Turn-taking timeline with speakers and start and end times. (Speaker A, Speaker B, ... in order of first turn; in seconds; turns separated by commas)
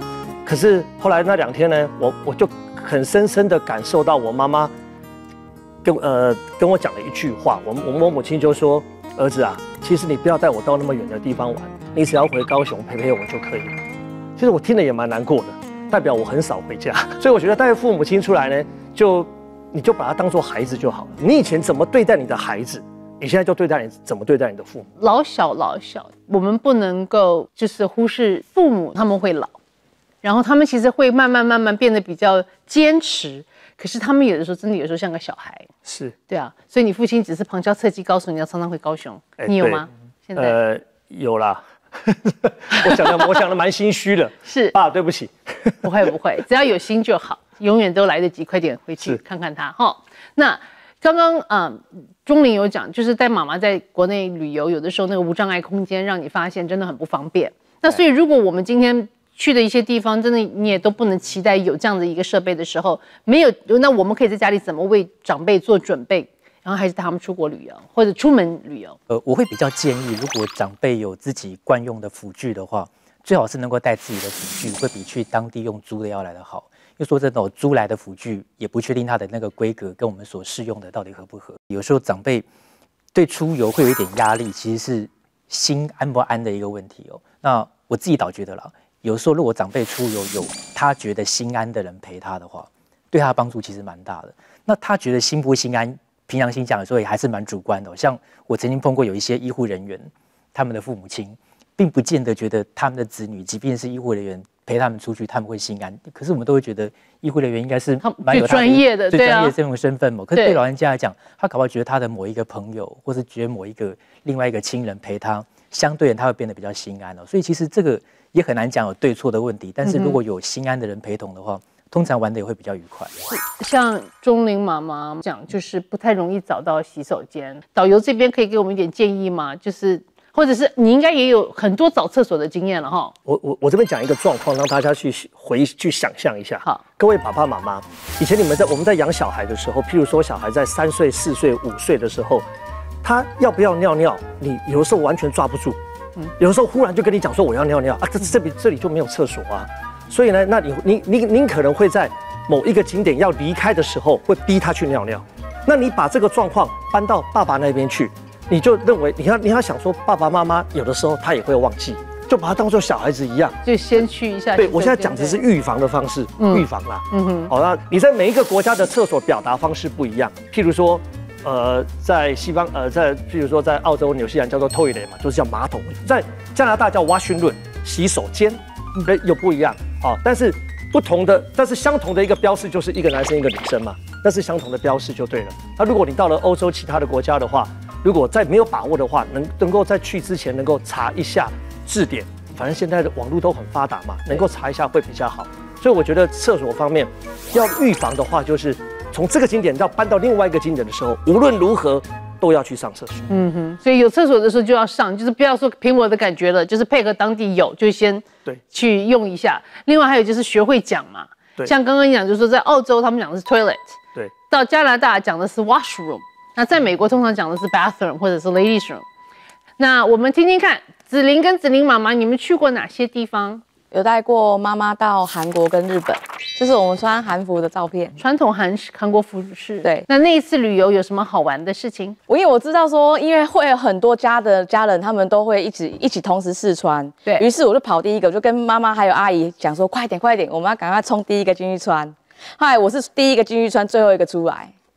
Speaker A: 0.5-4.7, Speaker A: 5.8-13.8, Speaker A: 14.4-24.9, Speaker B: 25.0-29.5, Speaker B: 30.2-35.7, Speaker A: 35.9-36.1, Speaker B: 36.3-40.6, Speaker A: 39.4-45.8, Speaker B: 42.7-43.2, Speaker B: 44.5-44.8, Speaker B: 45.8-69.0, Speaker C: 69.1-82.5, Speaker C: 83.1-123.1, Speaker B: 108.0-109.5, Speaker B: 110.3-110.6, Speaker B: 119.8-120.2, Speaker B: 123.3-133.1, Speaker A: 133.3-142.5, Speaker A: 143.0-145.8, Speaker A: 146.4-163.6, Speaker B: 163.6-165.4, Speaker A: 164.6-203.3, Speaker B: 166.4-167.5, Speaker B: 203.3-214.0, Speaker B: 214.5-219.1, Speaker B: 219.8-223.6, Speaker D: 223.9-228.2, Speaker B: 228.2-232.2, Speaker D: 232.3-244.7